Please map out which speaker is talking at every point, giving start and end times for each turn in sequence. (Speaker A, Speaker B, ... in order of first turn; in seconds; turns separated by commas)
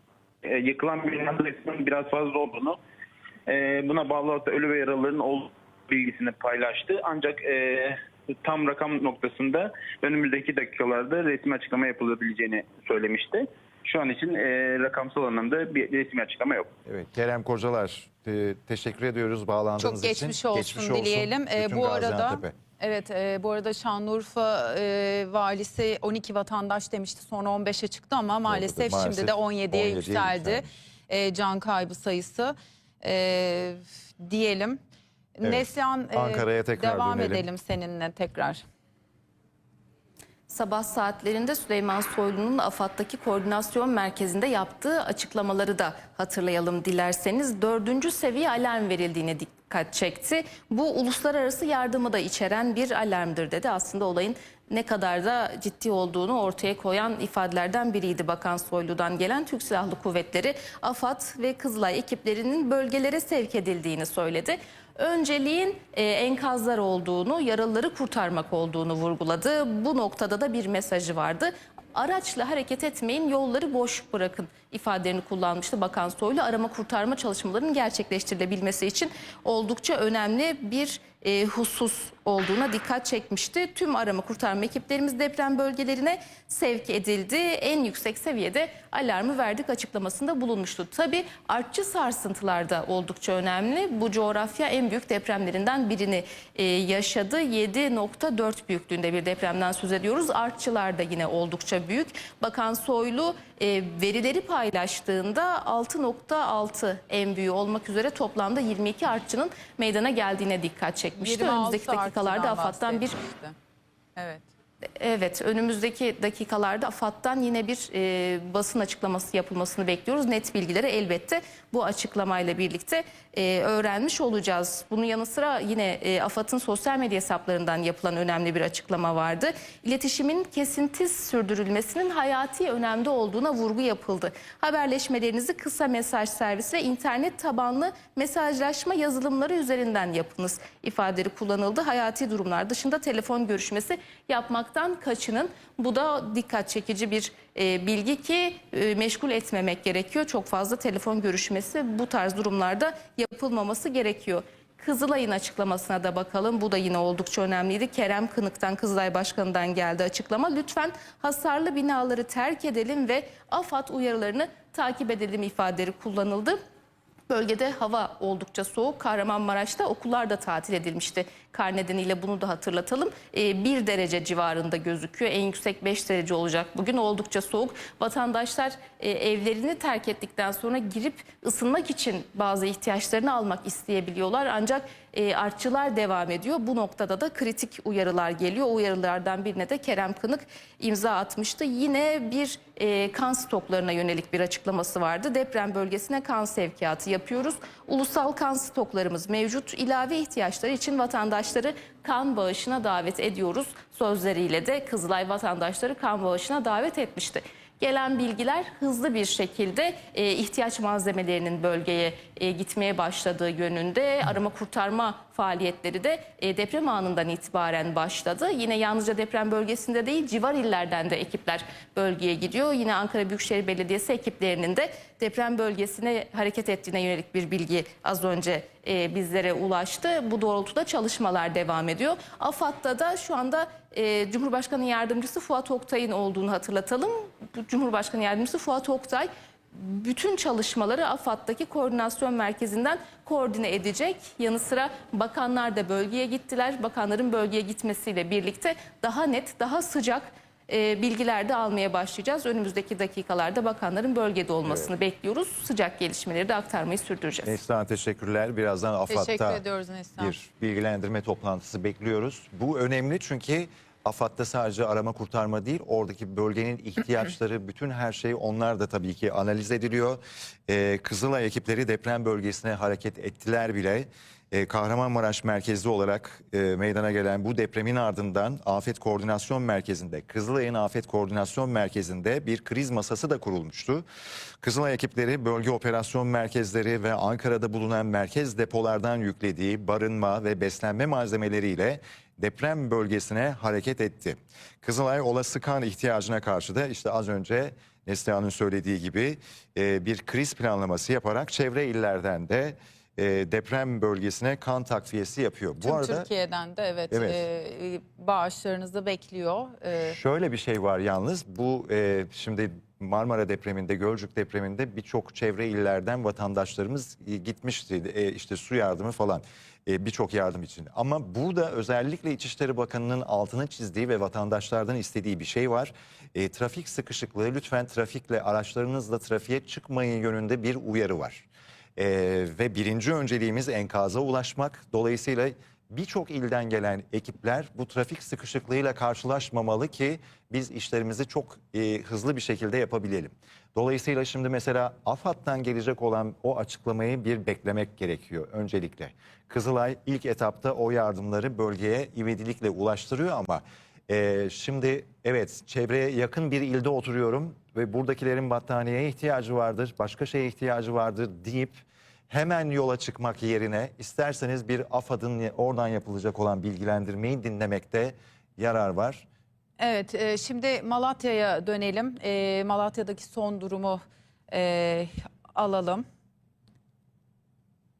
Speaker A: 0.4-2.8, Speaker A: 3.5-16.7, Speaker B: 16.9-22.6, Speaker C: 19.8-34.8, Speaker B: 28.4-30.6, Speaker C: 35.4-38.6, Speaker B: 35.4-37.5, Speaker D: 40.5-113.1, Speaker C: 111.2-113.5, Speaker C: 114.2-114.4, Speaker D: 115.0-166.6, Speaker D: 167.3-257.6, Speaker B: 254.6-254.9, Speaker B: 257.4-259.6, Speaker C: 259.1-260.3, Speaker B: 260.2-284.1, Speaker B: 284.6-306.3, Speaker C: 305.8-310.1, Speaker B: 307.1-307.4, Speaker B: 310.0-369.2, Speaker C: 369.8-376.0